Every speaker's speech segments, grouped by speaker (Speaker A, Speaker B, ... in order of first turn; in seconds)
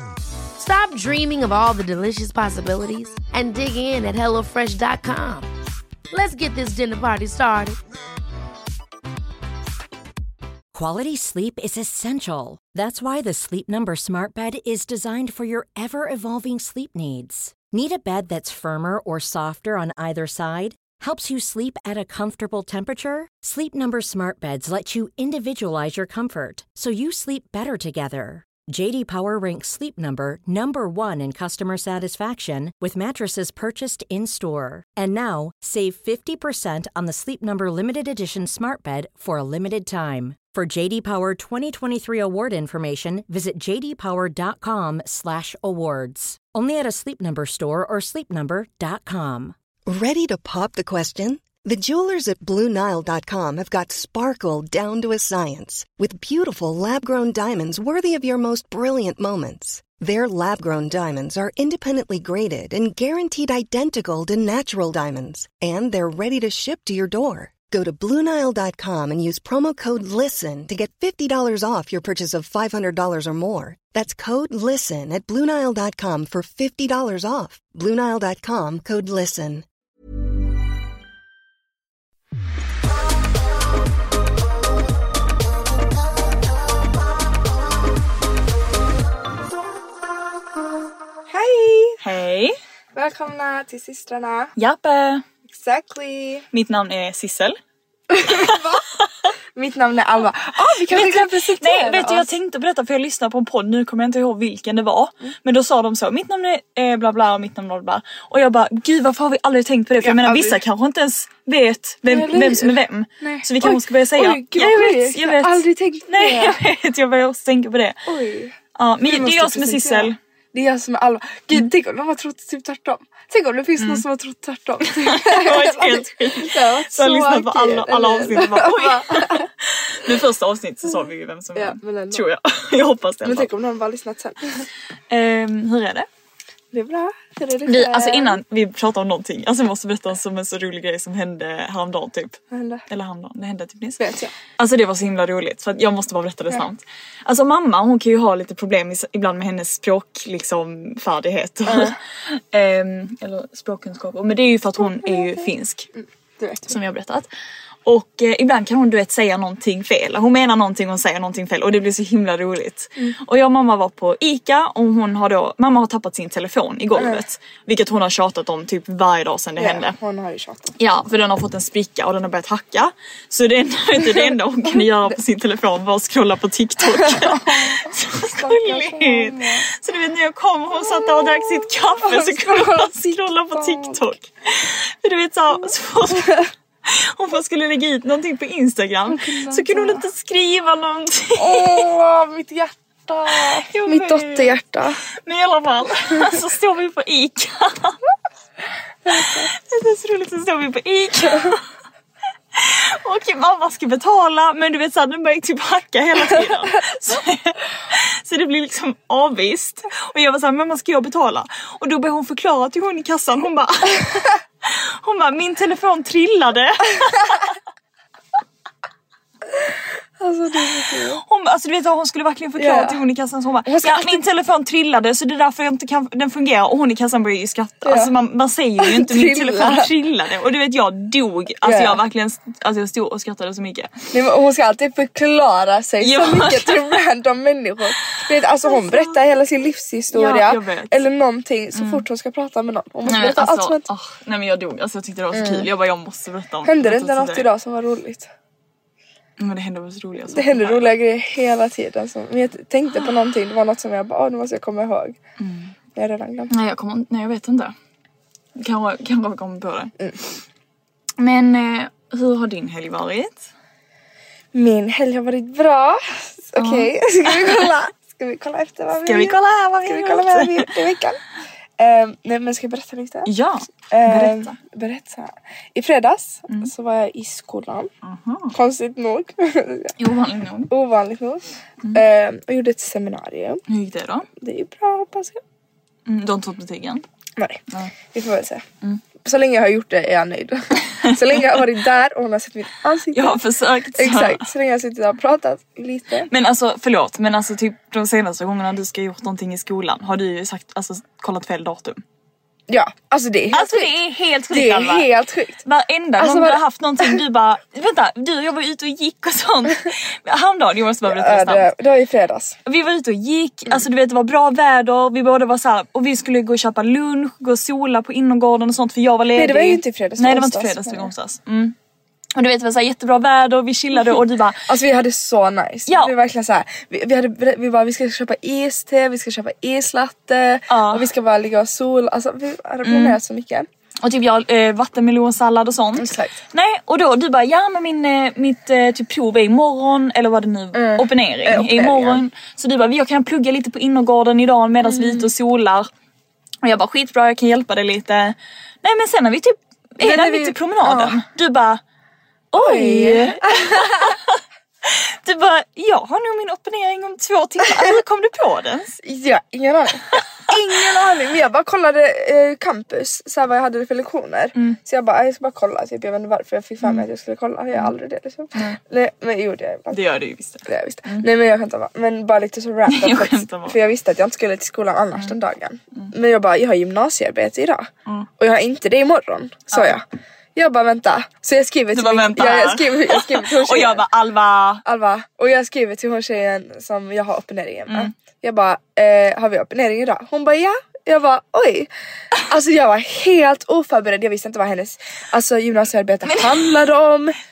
Speaker A: 0.6-5.5, 6.1-7.8
Speaker B: 10.7-49.5
Speaker C: 49.9-79.7
Speaker D: 91.3-92.0, 92.9-94.5, 95.5-96.5, 98.1-98.8, 99.5-102.3, 110.0-110.6, 112.0-116.6, 118.1-129.5, 131.6-132.3, 133.2-134.7, 136.7-138.4, 142.5-142.8, 144.0-144.3, 151.7-152.0, 154.8-156.8, 167.0-167.2, 169.6-170.8, 176.8-179.7, 180.8-184.1, 185.6-186.4, 189.1-190.1, 191.4-195.0, 199.1-199.5, 220.2-221.2, 222.6-223.0, 223.7-224.2, 227.8-228.1, 228.8-229.9, 231.6-232.0, 234.1-243.9, 245.3-245.7, 246.6-248.3, 250.3-255.2, 256.0-256.5, 264.5-271.2, 271.8-273.3, 273.9-277.9, 278.5-279.9, 280.7-283.6, 284.4-285.4, 287.4-288.6, 289.2-293.4, 293.9-296.3, 302.7-303.9, 304.5-305.6, 306.2-307.2, 311.0-312.6, 319.3-321.1, 324.7-333.7, 335.9-336.4, 340.7-342.2, 344.8-345.3, 350.0-351.2, 352.5-354.2, 359.0-370.0, 370.7-380.0, 380.6-384.0, 384.9-397.4
Speaker E: 92.0-92.5, 94.6-95.2, 96.5-97.6, 98.3-98.6, 100.9-118.0, 118.8-120.2, 123.8-124.0, 124.8-133.5, 135.1-136.1, 137.7-144.0, 144.6-155.9, 156.7-157.3, 157.8-169.9, 170.8-191.9, 193.3-194.6, 195.3-198.0, 199.1-201.6, 202.6-217.6, 221.2-233.9, 236.0-237.0, 238.1-239.2, 240.1-241.0, 241.8-242.1, 243.1-247.5, 249.4-250.9, 255.4-255.7, 256.5-257.7, 258.6-259.9, 261.2-263.4, 266.6-266.9, 269.1-270.7, 273.3-274.6, 278.0-278.5, 280.0-280.7, 283.7-284.3, 286.1-287.0, 291.0-291.4, 293.1-294.5, 296.3-302.0, 303.5-305.1, 305.6-311.7, 312.7-321.8, 322.4-324.7, 325.9-326.1, 330.7-331.1, 332.8-333.2, 334.0-345.9, 346.6-351.8, 352.5-359.0, 369.9-371.3, 372.9-373.8, 379.7-380.0, 381.9-384.8, 396.3-396.7